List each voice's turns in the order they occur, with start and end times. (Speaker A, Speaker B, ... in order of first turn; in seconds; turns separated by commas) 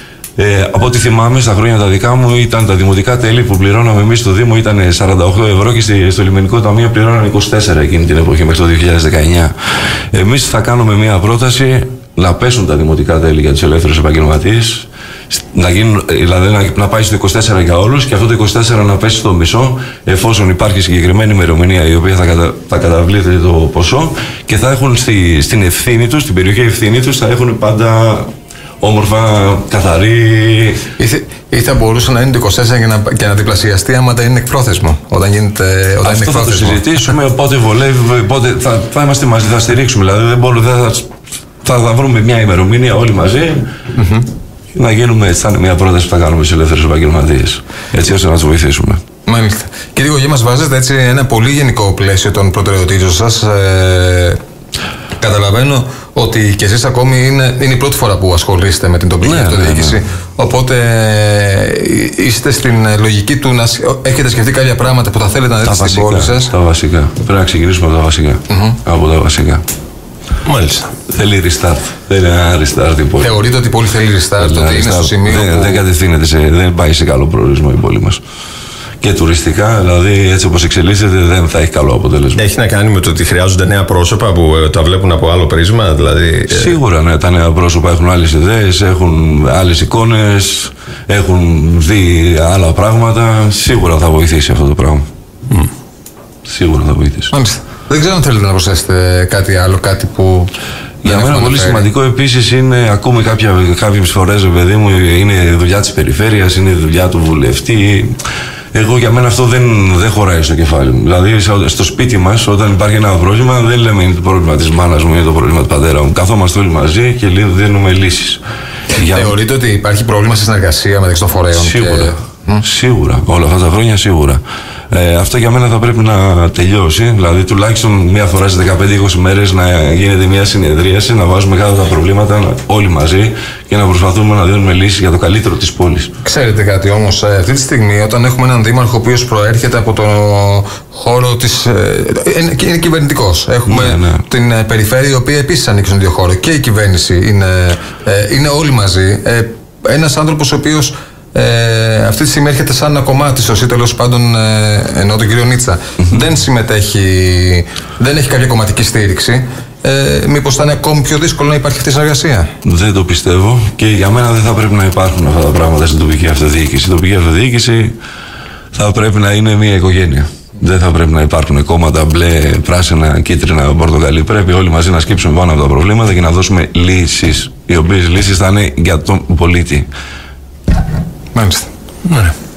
Speaker A: 0.4-9.5, Speaker A: 10.1-28.3, Speaker A: 28.8-30.8, Speaker B: 31.0-36.9, Speaker A: 36.0-41.1, Speaker A: 41.6-43.7, Speaker B: 43.9-44.3, Speaker A: 44.7-49.0, Speaker B: 49.2-54.4, Speaker B: 55.2-66.5, Speaker A: 59.2-60.0, Speaker A: 65.6-69.6, Speaker B: 68.5-68.8, Speaker C: 70.4-70.9, Speaker A: 71.1-73.4, Speaker B: 73.2-75.8, Speaker A: 74.4-78.2, Speaker A: 79.0-82.4, Speaker C: 82.4-86.8, Speaker A: 86.5-95.0, Speaker A: 96.5-97.3, Speaker B: 97.3-100.5, Speaker A: 101.0-108.1, Speaker B: 101.0-101.9, Speaker A: 108.7-118.4, Speaker A: 118.9-119.3, Speaker B: 119.0-122.6, Speaker A: 121.5-136.1, Speaker B: 136.2-162.5, Speaker A: 143.7-144.2, Speaker A: 162.6-167.9, Speaker A: 168.7-179.9, Speaker B: 181.3-181.7, Speaker C: 182.0-182.3